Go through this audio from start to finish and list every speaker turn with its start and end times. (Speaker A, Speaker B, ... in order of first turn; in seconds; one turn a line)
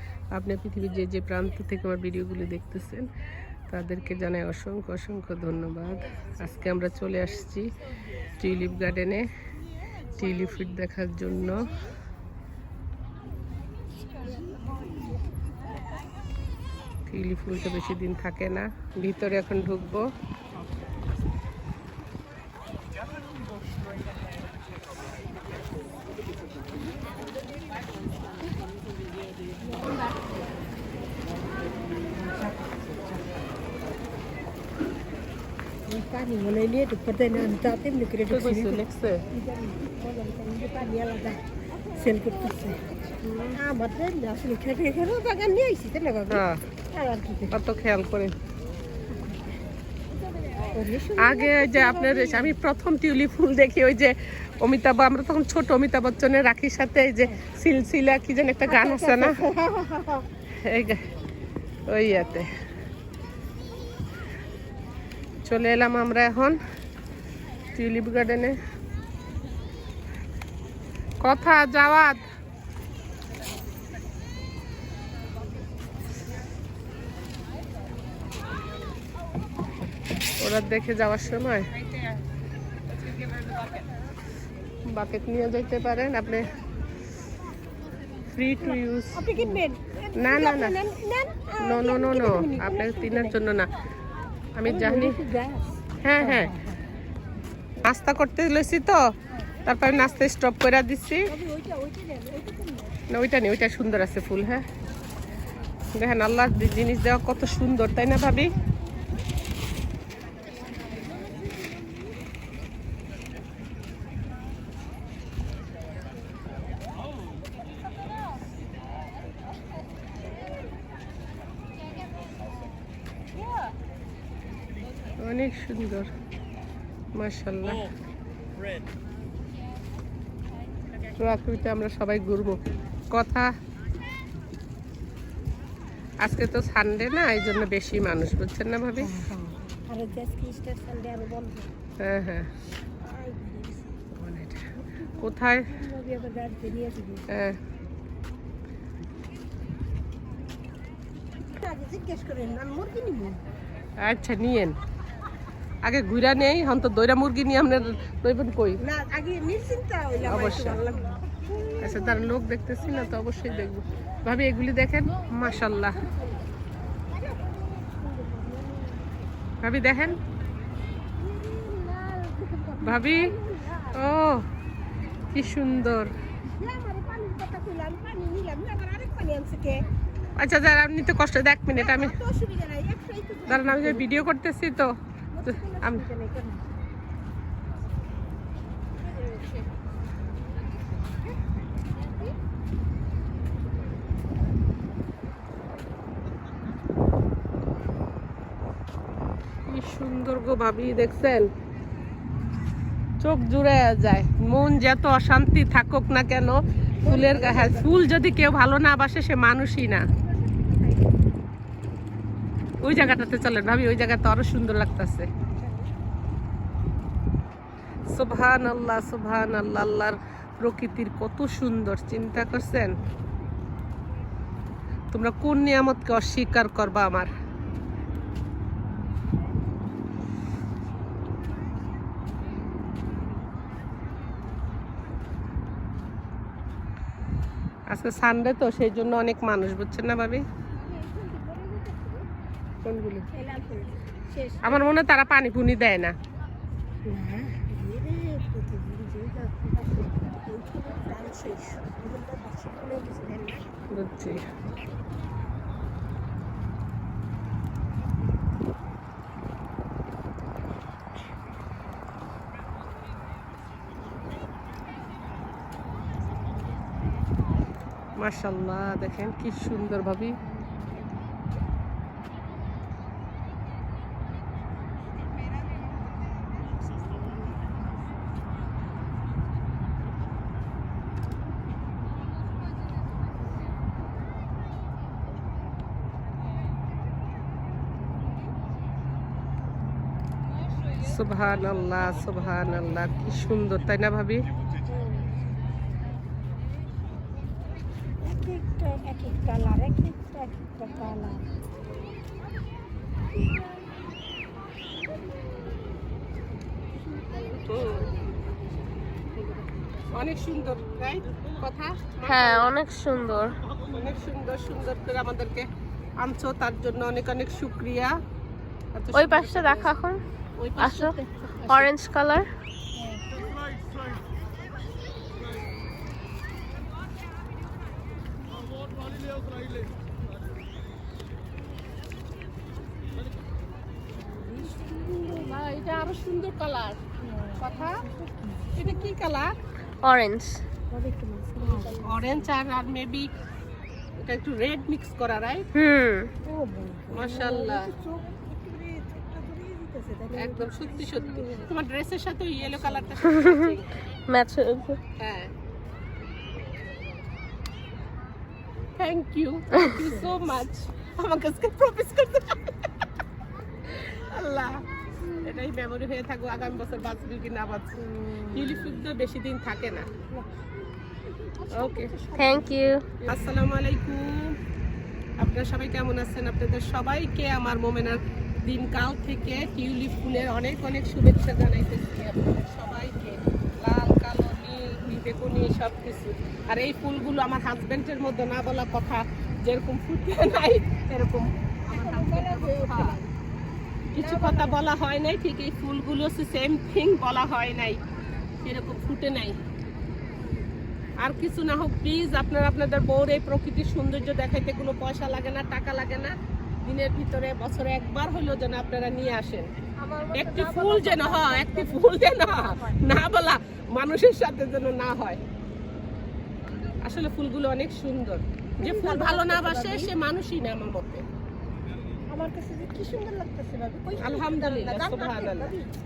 Speaker A: 0.3-3.1
Speaker A: 3.7-7.7
Speaker A: 8.4-9.3
Speaker A: 10.1-11.7
Speaker A: 17.1-20.1
Speaker B: 29.6-30.1
Speaker B: 35.9-41.4
Speaker A: 38.3-39.2
Speaker B: 41.9-42.8
Speaker A: 43.2-43.6
Speaker B: 43.5-47.6
Speaker A: 46.3-46.6
Speaker A: 47.5-48.3
Speaker B: 50.6-52.6
Speaker A: 51.2-59.4
Speaker B: 58.6-60.2
Speaker A: 60.6-61.1
Speaker A: 61.9-62.5
Speaker A: 65.4-66.6
Speaker A: 67.7-68.6
Speaker A: 71.2-72.2
Speaker A: 80.4-81.7
Speaker A: 84.9-86.5
Speaker A: 88.3-89.6
Speaker B: 88.6-93.4
Speaker A: 90.1-90.8
Speaker A: 91.6-93.7
Speaker A: 94.5-95.2
Speaker B: 94.6-96.8
Speaker A: 96.0-96.5
Speaker A: 97.8-99.0
Speaker A: 99.7-101.3
Speaker B: 101.3-103.0
Speaker A: 103.1-104.6
Speaker A: 105.9-108.5
Speaker A: 125.2-126.1
Speaker A: 127.1-127.8
Speaker A: 131.2-133.5
Speaker A: 136.2-139.2
Speaker B: 139.0-141.7
Speaker A: 142.0-142.5
Speaker B: 143.0-144.0
Speaker A: 144.1-145.7
Speaker B: 145.0-147.3
Speaker A: 147.3-147.6
Speaker B: 151.5-153.4
Speaker A: 154.0-154.8
Speaker A: 155.8-158.8
Speaker B: 158.8-161.2
Speaker A: 160.2-160.8
Speaker A: 161.8-166.0
Speaker B: 166.1-166.3
Speaker B: 167.1-169.2
Speaker A: 169.6-170.2
Speaker B: 171.2-174.0
Speaker A: 172.8-173.3
Speaker A: 173.9-174.5
Speaker A: 175.3-176.1
Speaker B: 176.5-179.8
Speaker A: 180.4-182.1
Speaker B: 181.7-184.2
Speaker A: 183.5-184.9
Speaker B: 185.3-186.7
Speaker A: 185.4-186.0
Speaker B: 189.2-189.5
Speaker A: 199.7-201.5
Speaker A: 203.2-210.0
Speaker B: 207.0-208.1
Speaker B: 210.2-211.3
Speaker A: 212.8-215.3
Speaker B: 215.5-215.9
Speaker A: 218.1-223.0
Speaker A: 225.1-227.3
Speaker A: 237.9-240.4
Speaker B: 240.7-242.3
Speaker A: 242.8-243.3
Speaker B: 243.3-244.9
Speaker A: 244.6-246.1
Speaker B: 247.1-253.7
Speaker A: 253.9-254.4
Speaker A: 268.1-270.4
Speaker A: 291.0-294.4
Speaker B: 294.9-295.3
Speaker B: 298.2-301.5
Speaker B: 307.1-308.1
Speaker A: 307.6-308.1
Speaker A: 310.1-312.7
Speaker C: 312.2-313.6
Speaker A: 313.9-315.7
Speaker A: 316.2-318.2
Speaker A: 318.9-319.9
Speaker C: 319.1-320.2
Speaker A: 320.6-321.9
Speaker C: 320.8-321.2
Speaker C: 321.7-322.5
Speaker B: 334.1-335.2
Speaker A: 335.0-337.0
Speaker B: 337.2-338.8
Speaker A: 337.6-338.0
Speaker A: 338.7-339.5
Speaker C: 340.0-340.6
Speaker B: 340.9-342.5
Speaker A: 342.0-343.3
Speaker A: 344.2-345.7
Speaker C: 345.7-346.3
Speaker B: 346.4-351.7
Speaker A: 347.1-347.9
Speaker A: 350.4-353.9
Speaker B: 352.6-353.2
Speaker C: 353.3-353.7
Speaker C: 354.3-355.0
Speaker A: 355.2-355.5
Speaker A: 359.0-362.7
Speaker B: 359.9-360.4
Speaker A: 363.9-364.8
Speaker A: 365.4-370.1
Speaker B: 371.4-372.9
Speaker A: 371.7-372.1
Speaker C: 372.3-373.0
Speaker A: 373.2-374.6
Speaker A: 375.4-393.1
Speaker B: 391.9-393.3
Speaker A: 394.1-398.0
Speaker B: 394.2-394.8
Speaker A: 398.6-399.6
Speaker A: 401.2-409.7
Speaker B: 410.0-413.0
Speaker A: 410.3-415.4
Speaker A: 417.0-421.2
Speaker B: 418.8-420.1
Speaker B: 422.3-425.9
Speaker A: 424.2-425.7